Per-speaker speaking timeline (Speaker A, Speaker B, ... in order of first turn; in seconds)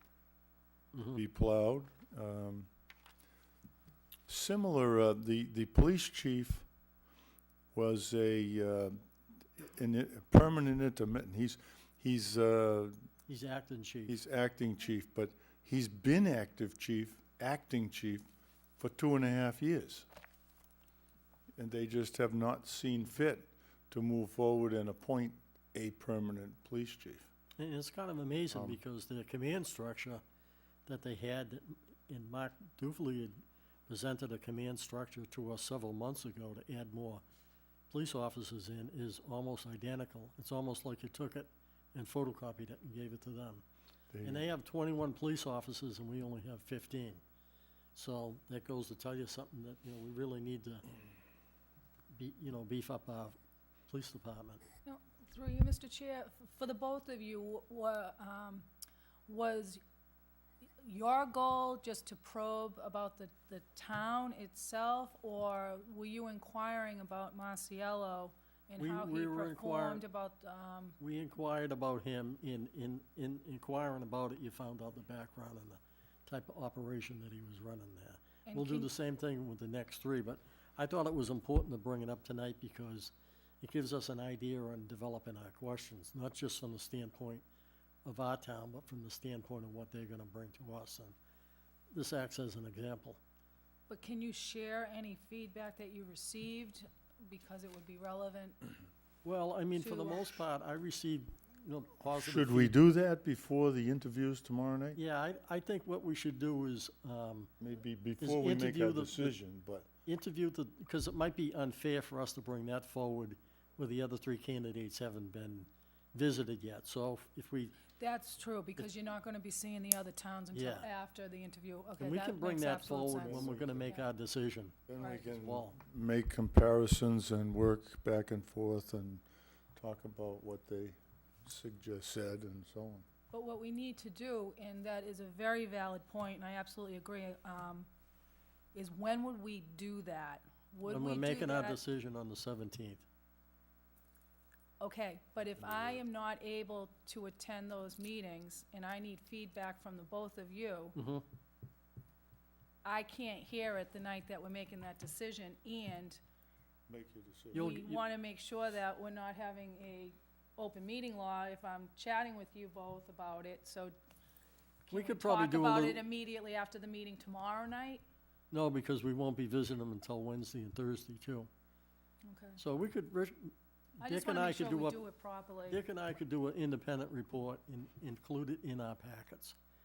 Speaker A: 0.9-1.2, 13.3-14.1, 27.6-30.2, 30.9-33.3, 33.9-37.2, 37.9-43.6, 44.2-47.2, 48.0-50.9, 52.1-53.4, 53.9-54.6, 68.8-70.0, 71.0-87.4, 88.0-91.2, 91.9-93.2, 99.2-102.8, 105.0-107.5, 108.2-109.3, 110.1-117.8, 120.5-120.9, 122.0-125.8, 140.8-143.0, 151.0-151.2, 157.5-158.0, 164.9-166.0, 168.5-171.5, 172.6-175.0, 175.7-179.6
Speaker B: 1.1-2.7, 4.3-6.7, 7.7-9.0, 9.6-12.9, 14.1-18.2, 18.8-20.1, 21.6-27.3, 28.5-28.8, 44.1-44.5, 102.1-105.0, 107.6-109.9, 123.2-123.9, 124.9-129.2, 129.8-133.1, 145.6-146.0, 156.9-157.8
Speaker C: 54.9-58.7, 59.3-59.8, 60.8-71.0, 78.5-78.9, 93.9-98.6, 99.7-100.4, 118.0-124.0, 125.0-125.2, 133.3-137.9, 138.7-141.8, 144.8-150.9, 152.8-156.2, 157.5-163.9, 164.9-168.0, 172.3-172.6, 174.0-175.8